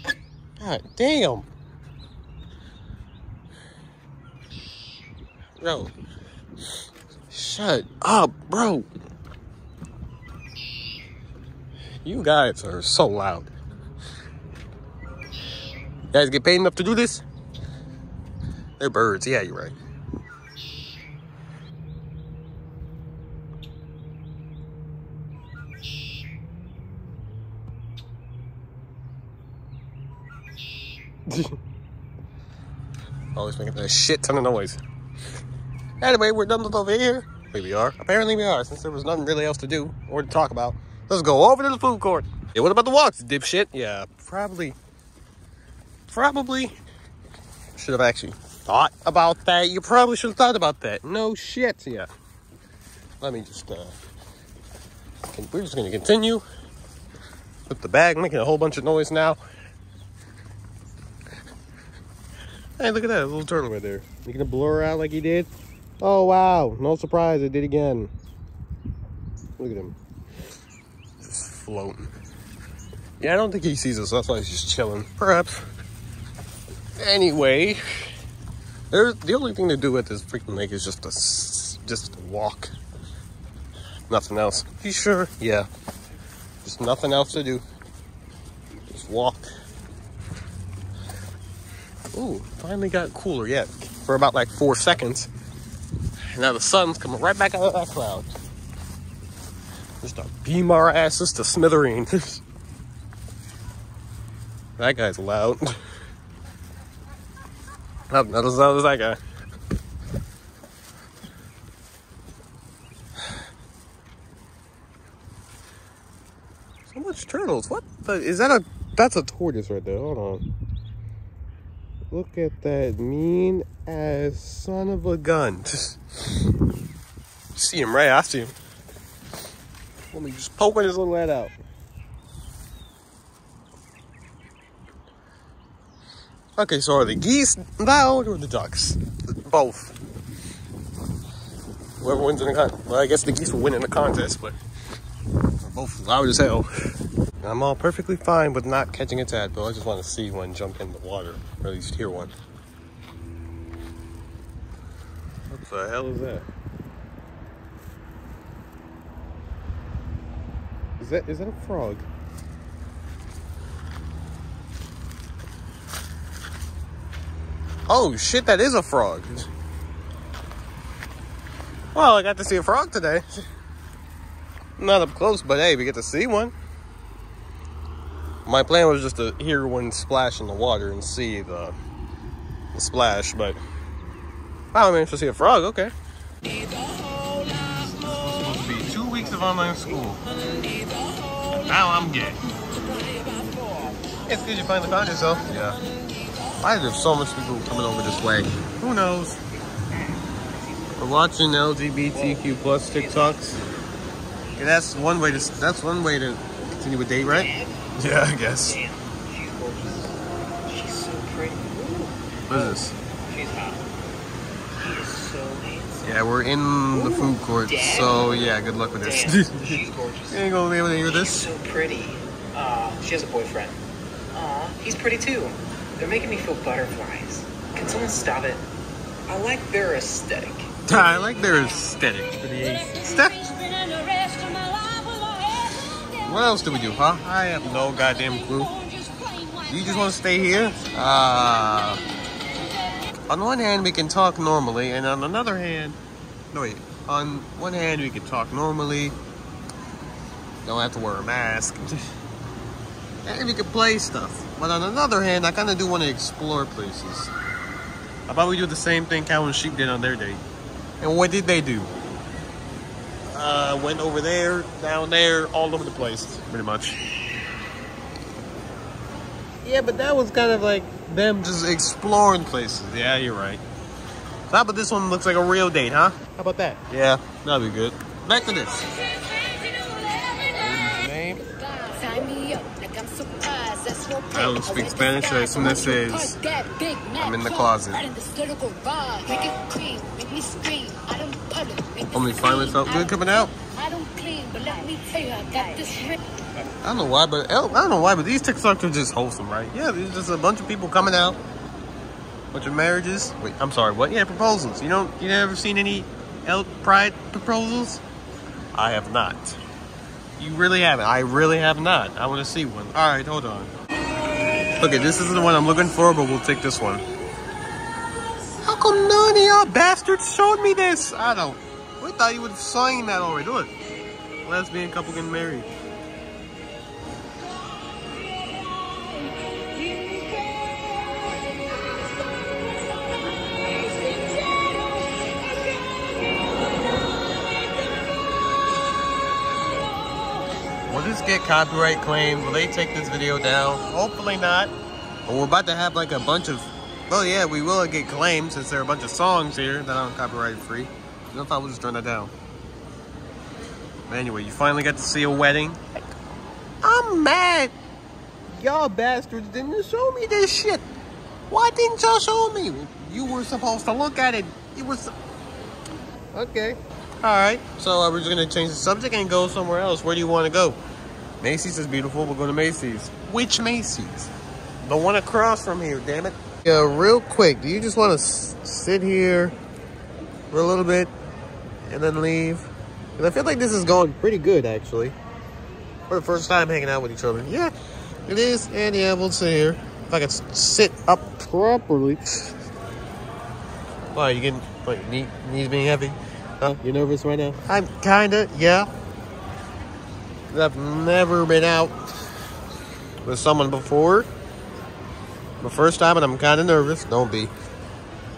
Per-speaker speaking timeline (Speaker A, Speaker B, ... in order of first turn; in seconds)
Speaker A: 0.6-1.5, 5.6-5.9, 7.3-8.8, 12.0-13.5, 16.1-17.2, 18.8-19.8, 31.3-31.6, 33.3-34.8, 36.0-44.8, 46.1-46.8, 47.7-52.1, 53.2-54.0, 55.3-56.4, 57.7-59.4, 62.8-68.1, 69.6-70.0, 71.2-72.1, 73.2-75.7, 77.0-78.1, 78.9-82.7, 84.1-85.7, 86.6-87.6, 88.7-89.5, 92.1-95.3, 96.3-98.4, 100.0-102.4, 104.8-105.8, 108.1-109.2, 116.9-120.5, 122.1-126.0, 127.5-128.5, 130.1-131.6, 136.6-140.0, 142.0-144.6, 145.6-146.7, 147.4-152.3, 155.5-156.5, 161.0-162.1, 167.9-169.5, 171.9-173.3, 174.8-176.5, 178.4-181.8, 182.7-183.6, 184.7-185.9, 187.6-190.2, 191.5-192.4, 194.2-195.8, 196.6-199.4, 201.0-203.6, 204.6-208.8, 212.5-212.9, 216.0-221.5, 230.8-233.5, 236.1-238.7, 239.7-242.0, 243.3-246.0, 246.5-249.2, 250.6-252.1, 253.2-257.3, 258.3-260.4, 261.0-261.9, 263.3-267.0, 269.6-273.6, 274.5-278.9, 280.5-281.4, 284.3-286.4, 287.2-288.0, 292.1-293.5, 296.8-301.4, 302.5-308.0, 308.7-309.6, 310.4-313.7, 314.8-317.1, 318.6-323.7, 324.4-325.7, 340.9-344.7, 345.2-352.3, 354.1-355.8, 356.8-357.7, 358.5-360.9, 361.5-365.1, 366.3-370.8, 371.4-379.6, 380.5-381.1, 381.9-385.1, 386.1-387.7, 388.3-392.5, 394.1-398.9, 400.5-402.2, 403.2-404.3, 405.6-407.5
Speaker B: 193.0-194.1, 199.7-201.3, 202.1-203.4, 205.2-205.4, 207.2-207.8, 208.6-213.8, 214.7-216.0, 216.9-220.4, 221.0-223.8, 224.3-228.7, 229.2-230.7
Speaker C: 233.5-235.6, 238.8-239.6, 279.2-280.5, 281.5-296.2, 329.9-330.3, 334.1-334.6